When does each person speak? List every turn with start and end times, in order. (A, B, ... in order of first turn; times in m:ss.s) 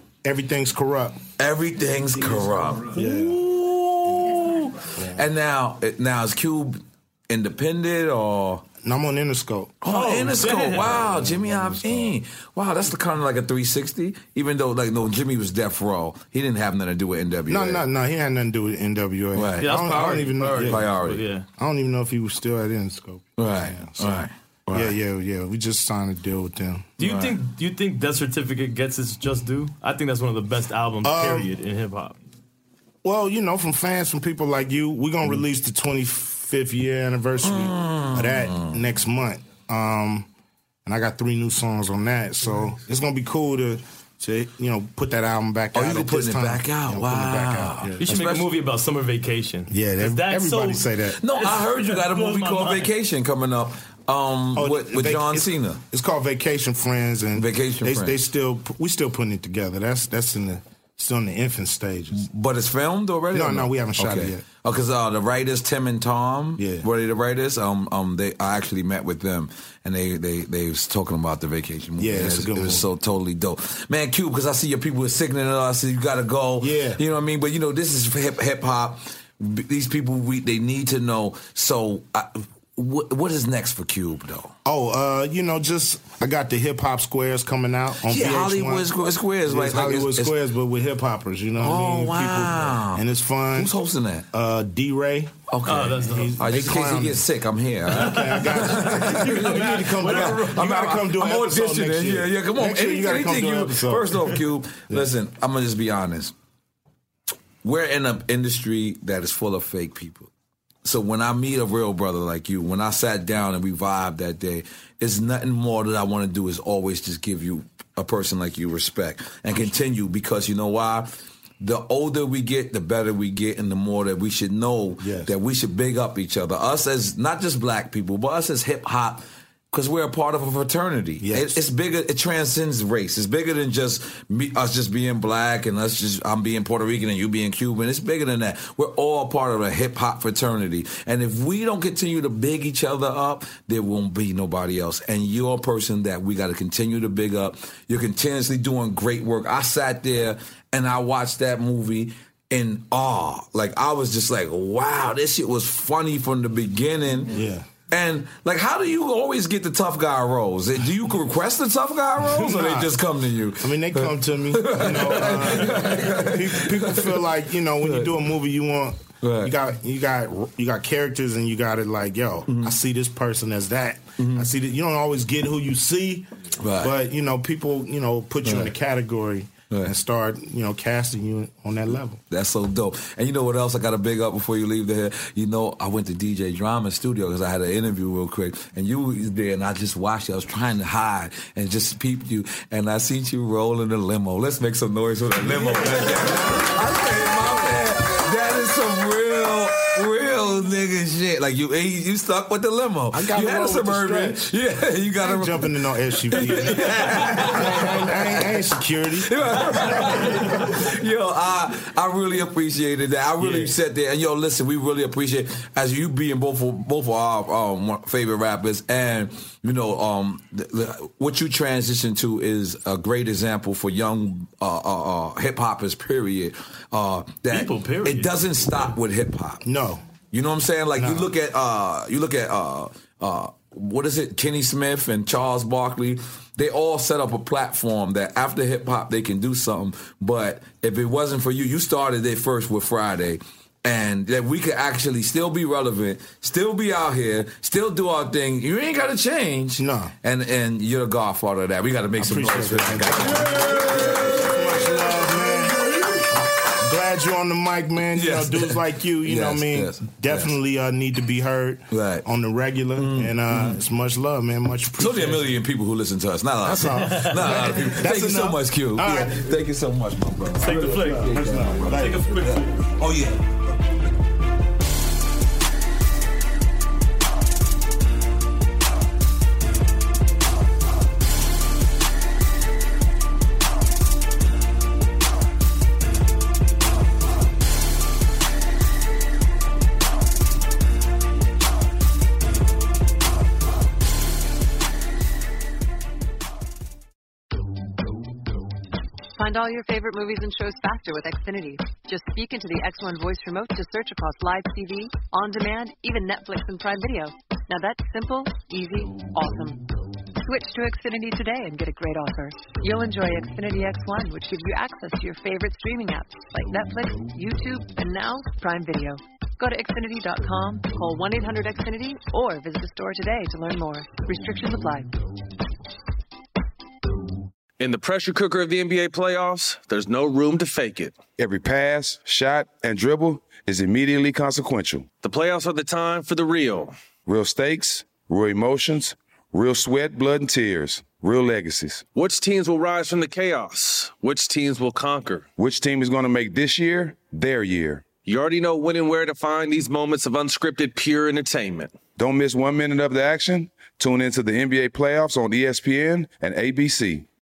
0:00.2-0:01.2 A
0:01.4-0:08.6 B
0:02.9-0:03.4 A
0:05.0-0:05.2 A
0:08.8-0:12.1 A
0:09.8-0:17.8 B
0:10.2-0:10.9 C
0:17.5-0:21.0 A
0:19.3-0:21.3 B
0:19.6-0:21.4 C
0:21.6-0:27.0 A
0:23.4-0:25.0 B
0:27.0-0:27.4 B
0:27.0-0:32.2 C
0:31.0-0:31.5 A
0:33.0-0:40.3 A
0:37.4-0:38.8 B
0:40.8-0:48.1 A
0:45.7-0:48.6 B
0:48.0-0:50.9 C
0:49.7-0:51.2 A
0:51.2-0:55.8 B
0:51.4-0:52.9 C
0:54.5-1:02.2 A
0:57.4-0:58.1 B
1:02.1-1:24.5 B
1:03.3-1:04.4 A
1:06.6-1:06.9 A
1:12.0-1:12.9 A
1:16.6-1:17.0 A
1:24.6-1:28.9 A
1:28.0-1:30.4 B
1:29.4-1:33.7 A
1:31.6-1:33.0 B
1:33.5-1:34.2 B
1:34.3-1:35.3 A
1:35.5-1:46.3 B
1:35.6-1:36.3 C
1:36.0-1:37.2 A
1:37.9-1:40.6 C
1:37.9-1:45.1 A
1:47.6-1:50.3 B
1:50.8-2:37.3 B
2:05.0-2:05.3 A
2:11.2-2:11.6 A
2:37.3-2:37.7 A
2:37.9-2:47.3 B
2:42.2-2:42.9 A
2:43.6-2:56.2 A
2:47.8-2:48.2 B
2:49.2-2:49.5 B
2:52.5-2:52.7 B
2:54.2-2:54.5 B
2:56.6-2:56.9 B
2:56.8-3:02.2 A
2:58.4-2:58.7 B
3:02.3-3:49.6 B
3:15.5-3:16.4 A
3:23.1-3:24.5 A
3:25.1-3:30.2 A
3:47.5-3:48.4 C
3:49.6-3:50.0 A
3:50.3-4:14.4 B
3:51.0-3:51.3 A
4:09.7-4:10.1 A
4:12.2-4:16.2 A
4:16.8-4:25.5 A
4:18.1-4:20.5 B
4:21.9-4:22.2 B
4:23.0-4:23.8 B
4:25.0-4:33.4 B
4:26.6-4:29.6 A
4:30.6-4:32.8 C
4:30.7-4:32.6 A
4:59.4-5:09.8 D
5:10.4-5:25.1 D
5:27.8-5:31.2 E
5:31.4-5:35.1 F
5:35.2-5:36.9 E
5:37.2-5:42.0 F
5:42.1-5:45.4 E
5:45.6-5:48.0 F
5:48.2-5:51.9 E
5:52.2-5:57.2 F